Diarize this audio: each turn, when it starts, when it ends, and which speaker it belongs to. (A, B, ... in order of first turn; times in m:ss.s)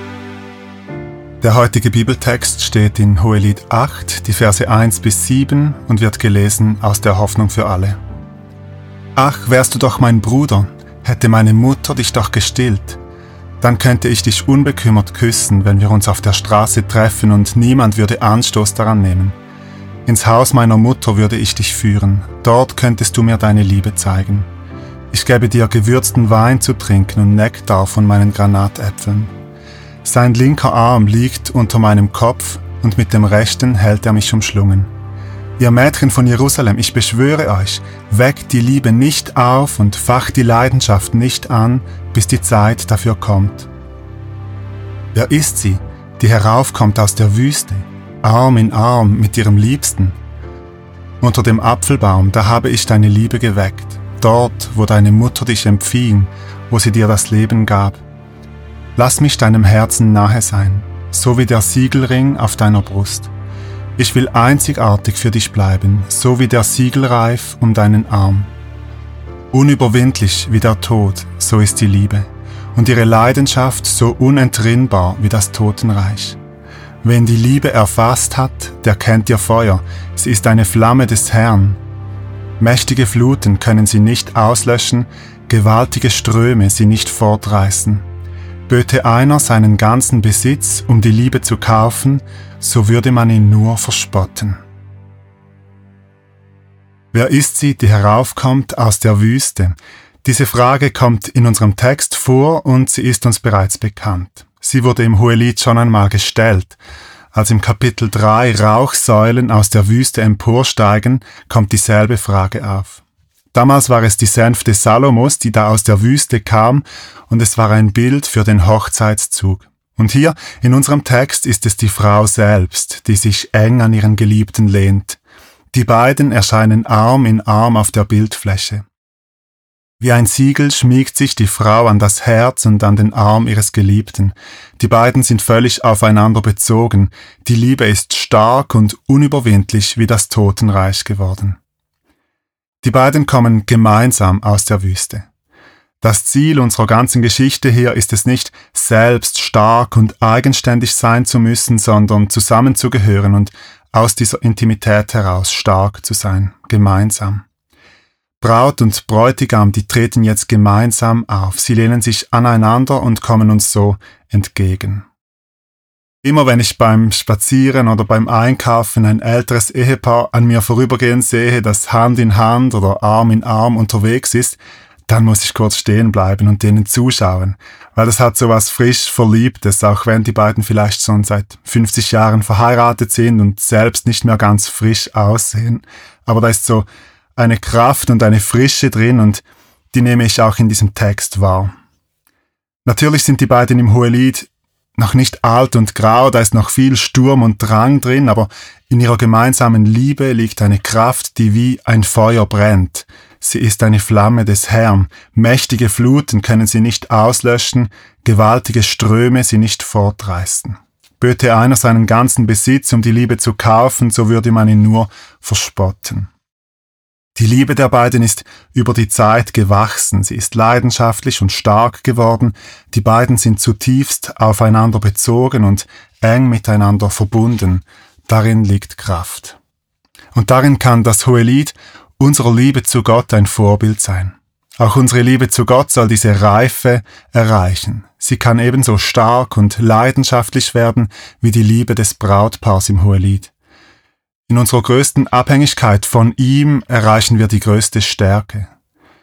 0:01.4-0:08.0 A
0:09.2-0:13.0 A
0:13.6-0:19.4 A
0:20.0-0:24.5 A
0:25.1-0:29.3 A
0:30.0-0:34.9 A
0:35.6-0:43.7 A
0:45.1-0:50.2 A
0:51.2-0:58.0 A
0:59.0-1:03.3 A
1:04.0-1:08.5 A
1:09.5-1:16.4 A
1:17.0-1:21.8 A
1:22.6-1:28.0 A
1:28.7-1:34.6 A
1:37.1-1:46.8 A
1:47.3-2:05.2 A
2:05.7-2:08.8 A
2:10.0-2:21.6 A
2:22.8-2:25.3 A
2:26.0-2:37.4 A
2:38.4-2:45.0 A
2:46.2-3:11.7 A
3:12.8-3:36.3 A
3:37.4-3:49.6 A
3:50.3-4:03.5 A
4:04.5-4:08.7 A